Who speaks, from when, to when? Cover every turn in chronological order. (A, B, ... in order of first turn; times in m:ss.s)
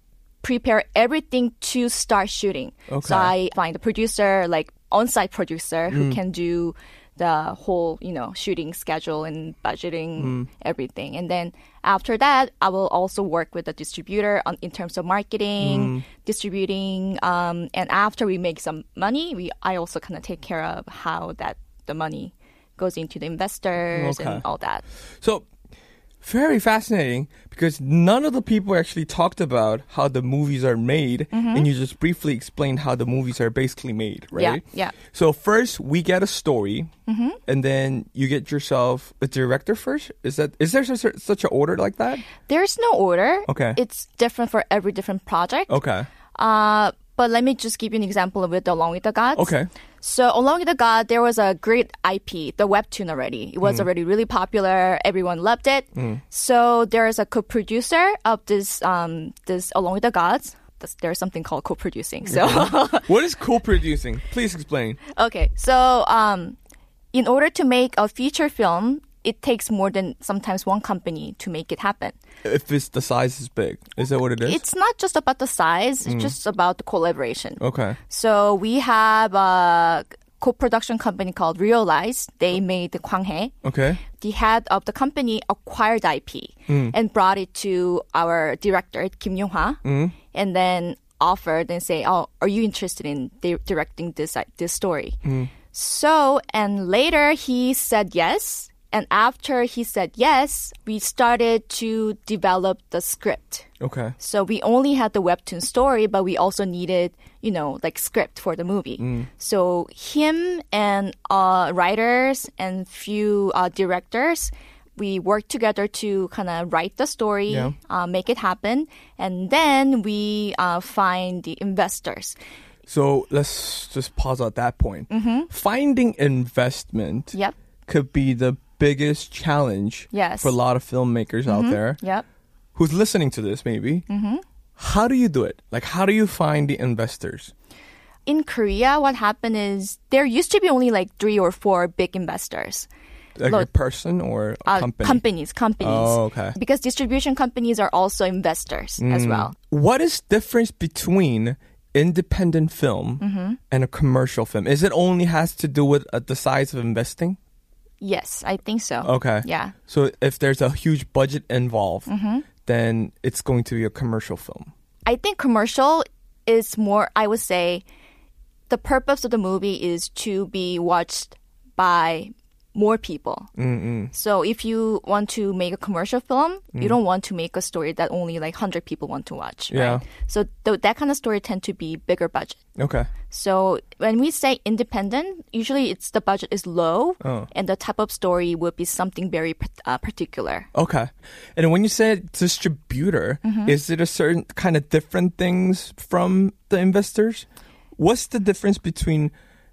0:00.4-0:24.8 A
0:02.9-0:03.3 B
0:05.9-0:06.2 B
0:10.2-0:10.5 B
0:15.6-0:16.0 B
0:23.9-0:24.4 B
0:26.2-0:36.9 B
0:31.3-0:31.7 A
0:34.3-0:35.0 A
0:37.0-0:37.4 A
0:37.5-0:42.2 B
0:42.4-0:45.8 A
0:43.5-0:43.8 B
0:45.7-0:46.1 B
0:46.3-1:03.1 A
0:49.4-0:49.7 B
0:55.9-0:56.2 B
1:02.2-1:05.0 B
1:05.1-1:06.6 A
1:07.1-1:12.2 A
1:12.4-1:14.6 B
1:14.4-1:23.5 A
1:16.0-1:16.3 B
1:17.6-1:18.0 B
1:23.6-1:24.0 B
1:24.1-1:35.2 A
1:26.7-1:27.0 B
1:29.8-1:30.2 B
1:35.2-1:35.5 B
1:35.7-1:43.7 A
1:43.8-1:44.2 B
1:44.2-2:02.4 A
1:49.0-1:49.3 B
1:57.5-1:57.8 B
2:02.9-2:07.4 B
2:05.1-2:05.5 A
2:07.9-2:12.0 B
2:10.1-2:10.6 A
2:11.5-2:12.2 A
2:12.8-2:14.0 B
2:14.1-2:14.4 A
2:14.8-2:17.5 B
2:18.2-2:22.9 A
2:23.4-2:25.2 B
2:24.6-2:29.5 A
2:25.8-2:26.6 B
2:29.0-2:37.4 B
2:33.2-2:33.6 A
2:38.0-2:39.7 A
2:39.0-2:42.1 B
2:42.1-2:42.5 A
2:42.6-2:44.7 B
2:45.0-2:47.8 A
2:48.7-2:53.5 A
2:53.6-2:54.1 B
2:54.1-3:02.6 A
2:59.7-3:00.0 B
3:02.8-3:03.1 B
3:03.3-3:10.7 A
3:07.2-3:07.5 B
3:10.7-3:19.3 B
3:13.4-3:13.8 A